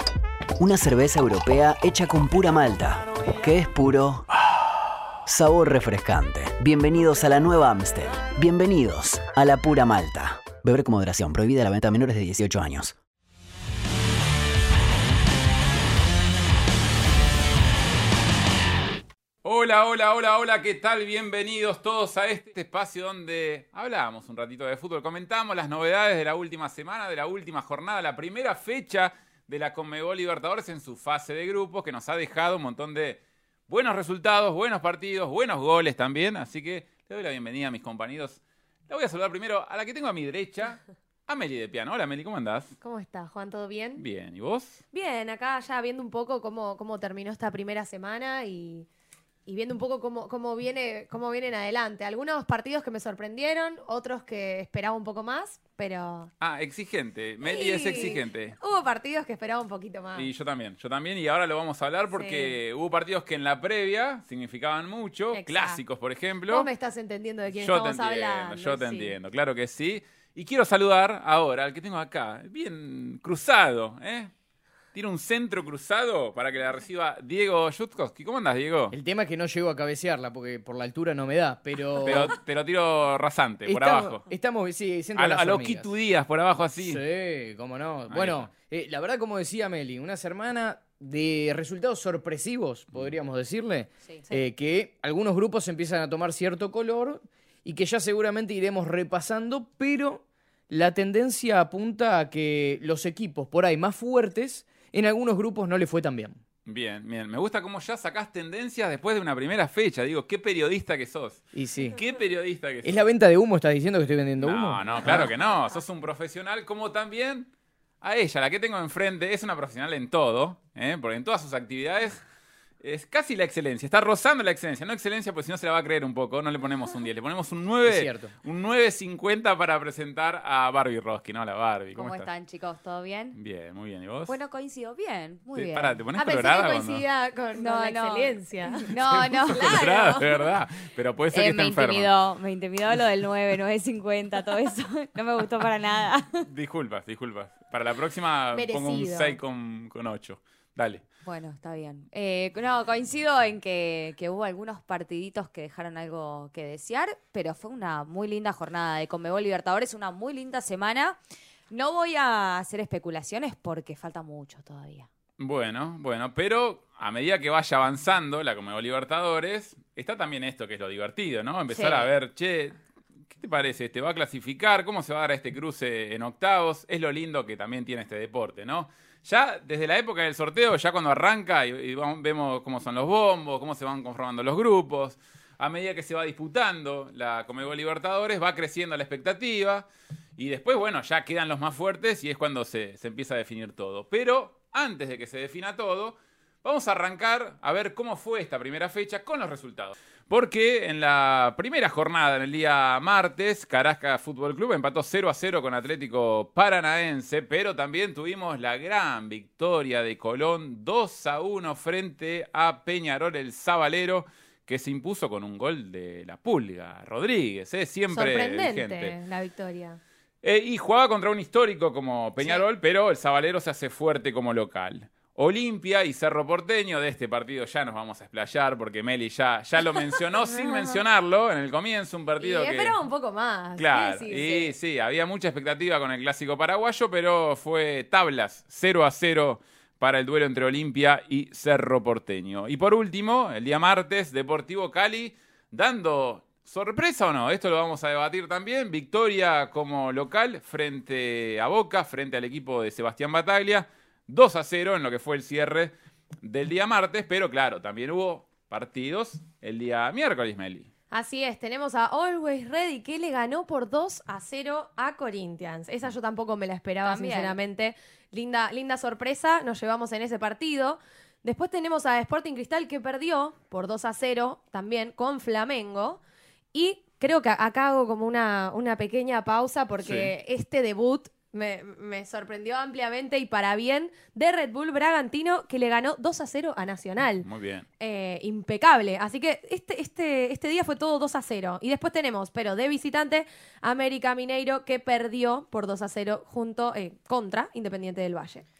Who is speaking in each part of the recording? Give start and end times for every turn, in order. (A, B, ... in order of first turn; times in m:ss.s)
0:00.6-0:04.3 A
0:05.2-0:13.0 A
0:19.4-0:42.8 B
0:42.8-0:44.0 C
0:44.0-0:44.8 B
0:44.9-0:48.8 C
0:49.5-0:56.3 C
0:56.4-0:58.6 B
0:57.4-1:00.3 C
1:00.1-1:06.7 B
1:02.1-1:02.6 C
1:05.3-1:05.8 C
1:06.5-1:09.1 C
1:07.5-1:14.3 B
1:14.9-1:18.9 B
1:18.9-1:22.3 D
1:22.0-1:24.2 B
1:23.7-1:25.9 D
1:25.2-1:27.0 B
1:26.8-1:46.4 D
1:28.1-1:28.5 B
1:46.7-1:51.4 B
1:51.5-1:52.0 D
1:52.0-1:53.0 B
1:52.8-1:55.3 D
1:54.4-1:57.5 B
1:58.0-2:02.2 B
2:02.8-2:12.3 B
2:07.8-2:08.3 D
2:11.9-2:13.4 E
2:13.3-2:14.4 B
2:14.3-2:16.0 E
2:15.5-2:17.0 B
2:16.2-2:20.4 C
2:17.6-2:19.8 E
2:19.6-2:22.1 B
2:21.3-2:26.4 E
2:26.4-2:31.0 B
2:28.5-2:29.4 C
2:31.2-2:41.2 E
2:41.7-2:45.1 E
2:45.4-3:39.2 B
2:51.7-2:52.1 E
3:38.1-3:40.0 C
3:40.4-3:53.0 B
3:52.4-3:54.7 C
3:53.8-4:20.9 B
4:21.1-4:36.2 C
4:27.0-4:27.6 E
4:36.7-4:47.5 C
4:40.0-4:40.3 B
4:47.4-4:47.9 B
4:48.0-4:58.6 C